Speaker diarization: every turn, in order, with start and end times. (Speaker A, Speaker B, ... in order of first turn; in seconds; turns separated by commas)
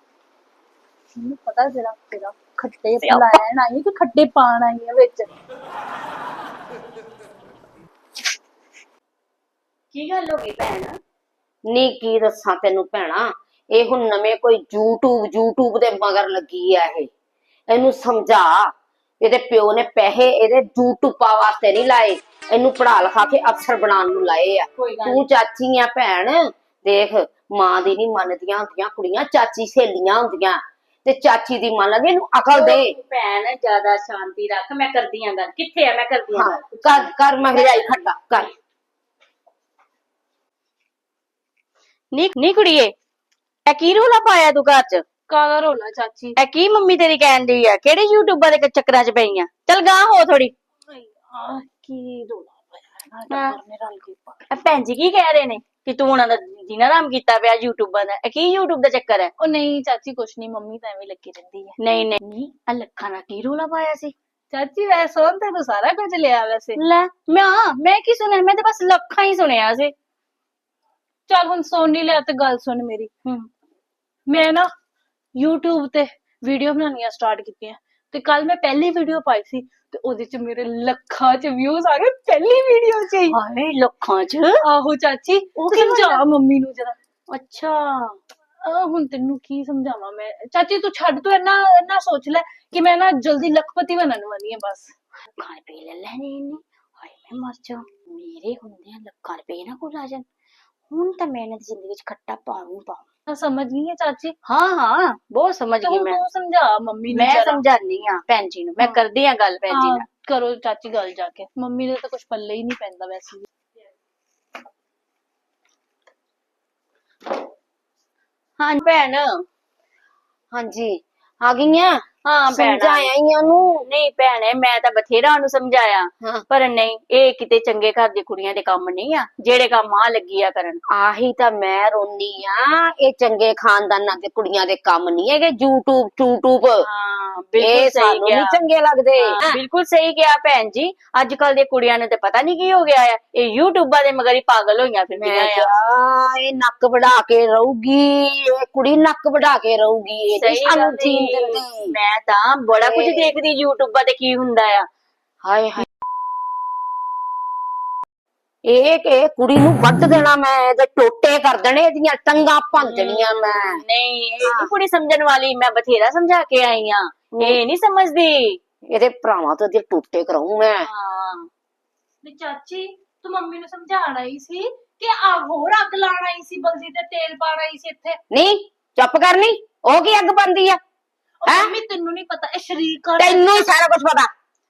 Speaker A: 1.1-5.3, Speaker B: 3.0-3.4, Speaker B: 9.9-11.0, Speaker C: 11.7-17.1, Speaker C: 17.7-32.9, Speaker B: 24.8-25.3, Speaker B: 32.5-38.0, Speaker C: 36.3-38.5, Speaker B: 42.1-42.9, Speaker B: 43.6-45.0, Speaker A: 45.3-46.4, Speaker B: 46.4-50.5, Speaker A: 50.9-54.5, Speaker B: 53.3-53.5, Speaker B: 54.5-59.3, Speaker A: 59.4-61.8, Speaker B: 61.8-64.1, Speaker A: 64.5-66.8, Speaker B: 66.8-69.9, Speaker A: 71.3-73.1, Speaker A: 74.3-74.7, Speaker A: 75.3-83.3, Speaker B: 83.3-84.6, Speaker A: 84.6-87.0, Speaker B: 85.7-86.2, Speaker B: 87.3-88.2, Speaker A: 88.6-94.9, Speaker B: 95.4-100.2, Speaker B: 100.9-103.0, Speaker A: 103.3-104.3, Speaker B: 104.5-106.2, Speaker A: 105.8-107.6, Speaker B: 107.1-110.0, Speaker A: 109.7-113.5, Speaker B: 118.6-119.4, Speaker C: 120.5-123.8, Speaker B: 122.2-123.1, Speaker B: 123.8-130.8, Speaker C: 130.9-136.8, Speaker B: 136.8-138.6, Speaker C: 137.6-139.6, Speaker B: 139.2-145.7, Speaker C: 145.2-151.9, Speaker B: 150.3-154.8, Speaker C: 152.7-153.3, Speaker C: 155.4-155.8, Speaker C: 158.7-163.8, Speaker B: 162.8-168.6, Speaker C: 164.4-164.7, Speaker C: 168.9-170.9, Speaker B: 170.8-171.5, Speaker A: 172.2-178.2, Speaker C: 178.3-180.8, Speaker A: 181.4-183.7, Speaker C: 181.5-181.7, Speaker C: 183.2-184.3